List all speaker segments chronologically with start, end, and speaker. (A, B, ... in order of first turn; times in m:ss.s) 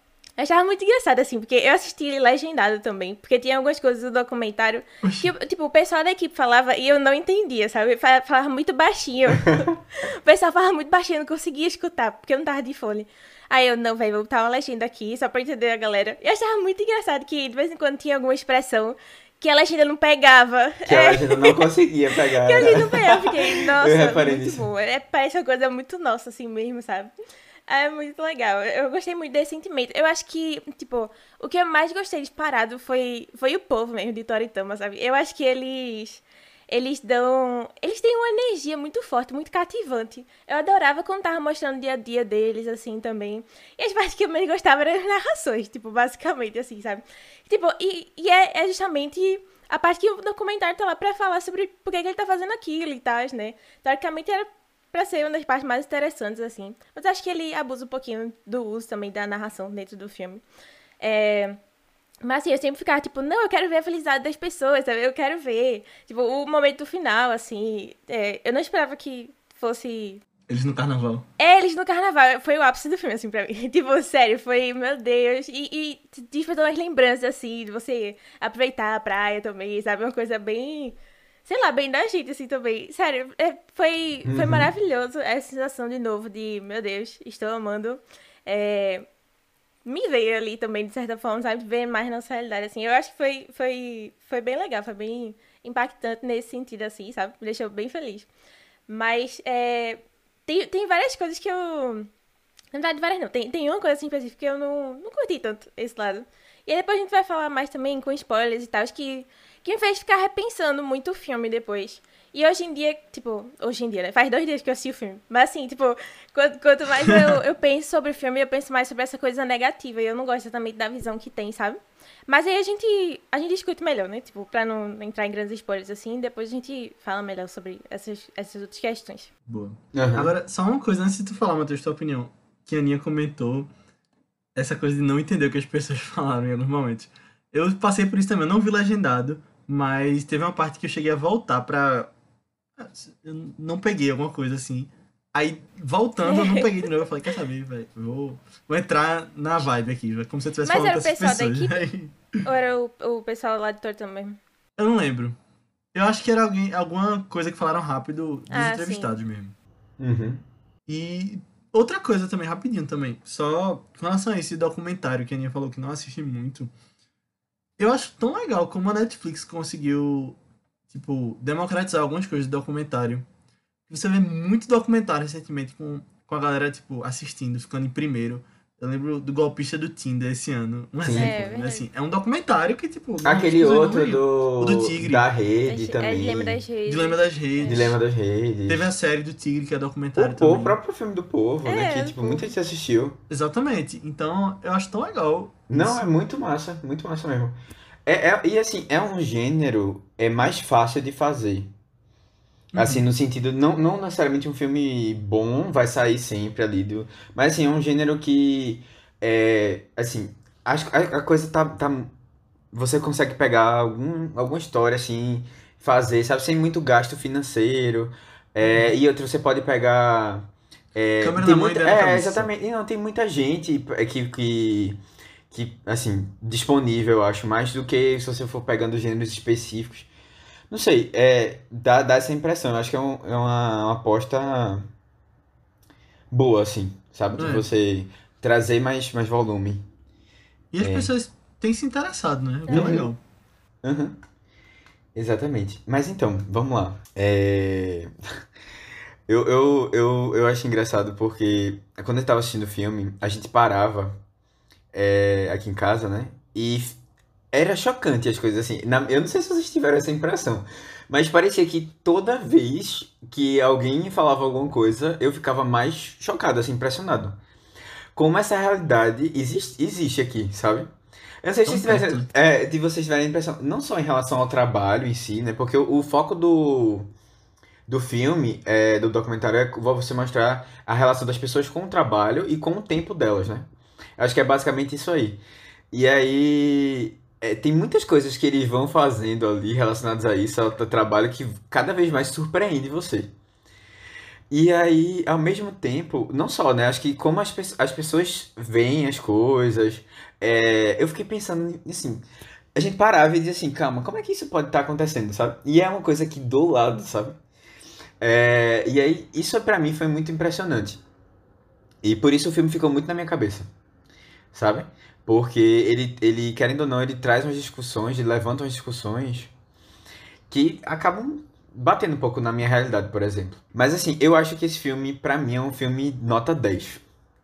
0:00.4-0:21.7 A
0:05.0-0:05.3 B
0:20.8-0:24.7 C
0:22.3-0:27.1 A
0:27.7-1:00.4 A
1:01.0-1:01.6 A
1:02.2-1:10.2 A
1:10.5-1:11.3 B
1:11.4-1:29.0 A
1:24.2-1:24.7 C
1:29.8-1:38.3 A
1:38.9-1:42.1 A
1:42.7-2:09.3 A
2:09.5-2:13.7 B
2:09.9-2:10.3 C
2:14.5-2:22.1 B
2:22.8-2:32.1 B
2:26.2-2:26.7 A
2:30.6-2:31.8 A
2:32.4-2:34.4 A
2:34.8-2:35.4 B
2:35.9-2:39.5 B
2:38.5-2:39.1 A
2:40.0-2:40.4 C
2:40.9-2:46.7 B
2:47.8-2:50.4 B
2:50.9-2:53.2 B
2:53.9-3:05.3 B
3:01.0-3:01.4 C
3:01.1-3:01.9 A
3:03.2-3:06.6 C
3:05.7-3:07.9 A
3:06.9-3:08.0 B
3:07.6-3:08.9 C
3:08.7-3:10.8 B
3:10.2-3:13.2 C
3:11.6-3:12.5 A
3:13.3-3:16.1 B
3:15.7-3:21.7 C
3:22.7-3:23.0 B
3:22.8-3:32.1 C
3:32.7-3:45.0 C
3:38.6-3:39.0 B
3:41.2-3:42.5 B
3:45.5-3:50.1 C
3:50.7-3:54.9 C
3:56.3-3:59.9 C
3:57.4-3:57.6 B
4:00.7-4:03.2 B
4:00.8-4:01.1 C
4:02.7-4:03.1 A
4:02.7-4:03.1 C
4:03.8-4:04.2 C
4:05.1-4:08.1 C
4:09.3-4:14.2 C
4:14.9-4:17.0 C
4:17.5-4:27.4 C
4:28.1-4:30.9 C
4:31.4-4:37.1 C
4:31.7-4:32.3 B
4:37.9-4:45.4 C
4:45.9-4:53.3 C
4:54.5-5:02.2 C
5:02.8-5:07.4 C
5:08.2-5:11.0 C
5:12.0-5:13.7 C
5:14.5-5:19.5 C
5:20.5-5:27.0 C